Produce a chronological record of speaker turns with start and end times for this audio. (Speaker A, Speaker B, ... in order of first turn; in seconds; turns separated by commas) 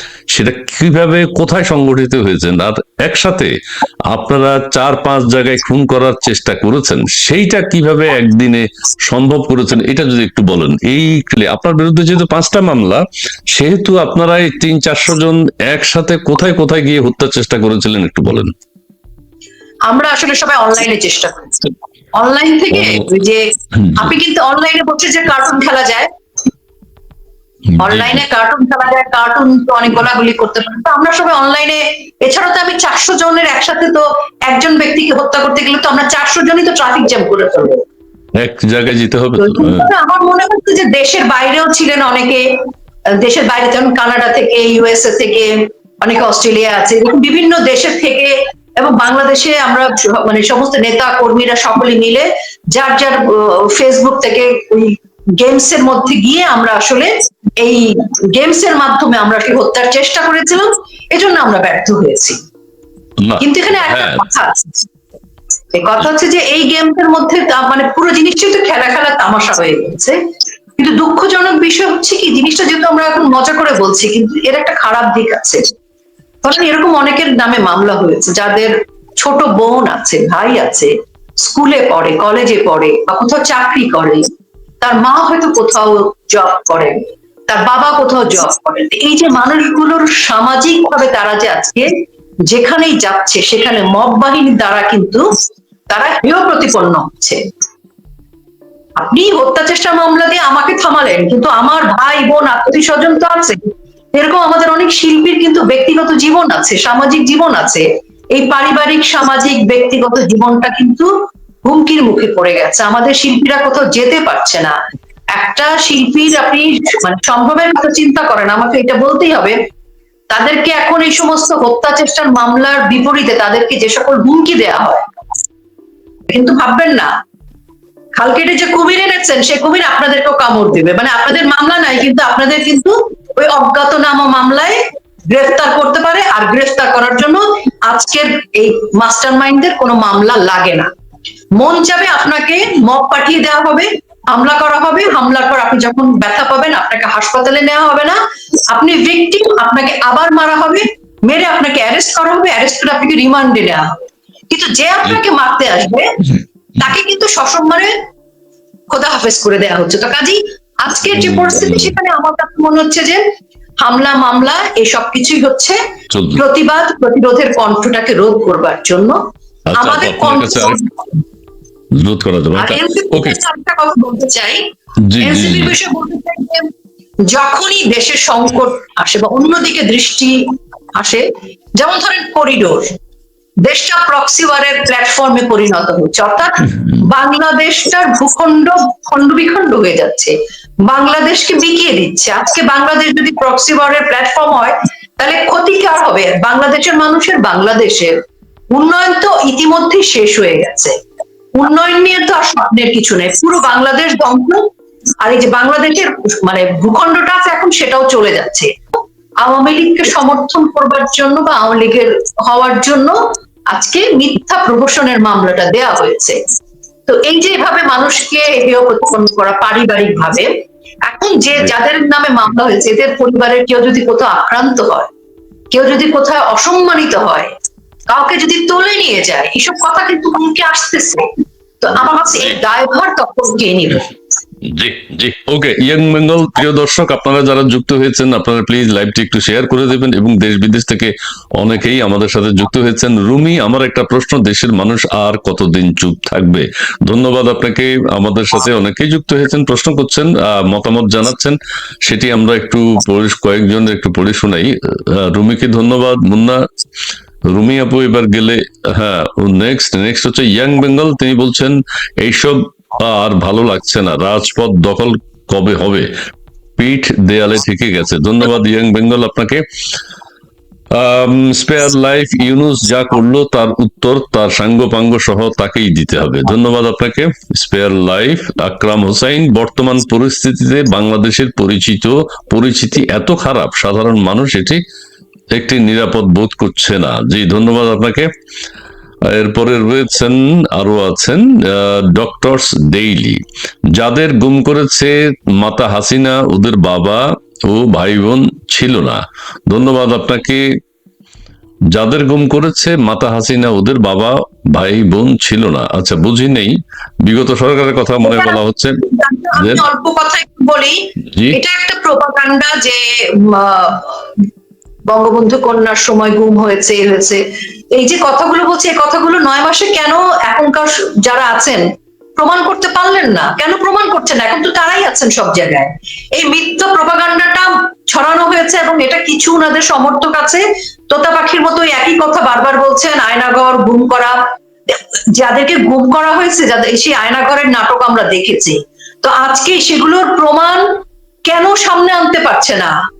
Speaker A: 0.3-3.5, Speaker A: 4.1-18.5, Speaker B: 19.9-21.6, Speaker B: 22.2-26.1, Speaker A: 27.8-28.2, Speaker B: 27.8-37.8, Speaker A: 38.4-39.9, Speaker B: 39.4-42.5, Speaker B: 43.2-57.1, Speaker B: 57.6-62.4, Speaker A: 63.2-64.2, Speaker B: 63.4-64.7, Speaker B: 65.7-70.2, Speaker B: 70.8-75.6, Speaker B: 76.4-80.9, Speaker B: 81.4-84.3, Speaker B: 84.8-86.9, Speaker B: 87.5-91.9, Speaker B: 92.5-95.3, Speaker B: 95.9-97.4, Speaker B: 99.0-103.6, Speaker B: 104.1-111.1, Speaker B: 111.6-114.7, Speaker B: 115.3-119.5, Speaker B: 120.3-125.0, Speaker B: 126.3-127.1, Speaker B: 128.2-134.8, Speaker B: 135.3-140.9, Speaker B: 141.6-148.2, Speaker B: 148.7-153.9, Speaker B: 154.5-157.9, Speaker B: 158.9-163.2, Speaker A: 161.1-161.9, Speaker B: 163.8-165.8, Speaker A: 166.1-166.4, Speaker B: 166.3-169.2, Speaker A: 169.7-170.8, Speaker B: 169.8-170.9, Speaker A: 172.0-173.4, Speaker B: 172.6-174.6, Speaker A: 175.1-175.7, Speaker B: 175.2-176.7, Speaker B: 177.3-180.4, Speaker B: 180.9-181.2, Speaker B: 181.8-182.9, Speaker B: 183.6-190.3, Speaker B: 190.9-198.1, Speaker B: 198.7-200.9, Speaker B: 201.6-204.6, Speaker B: 205.2-208.7, Speaker B: 209.4-213.2, Speaker B: 213.7-216.4, Speaker B: 217.1-220.5, Speaker B: 221.1-225.1, Speaker B: 225.7-227.5, Speaker B: 228.1-231.2, Speaker B: 231.8-234.1, Speaker A: 234.6-256.6, Speaker A: 257.5-266.1, Speaker A: 266.8-269.6, Speaker A: 270.9-284.8, Speaker A: 285.5-288.3, Speaker A: 289.3-293.4, Speaker A: 293.9-300.6, Speaker A: 301.9-309.0, Speaker B: 308.2-311.0, Speaker A: 309.5-309.8, Speaker A: 311.3-311.6, Speaker B: 311.5-314.4, Speaker B: 315.1-317.4, Speaker B: 317.9-321.8, Speaker B: 322.4-334.4, Speaker B: 334.9-340.8, Speaker B: 341.5-342.9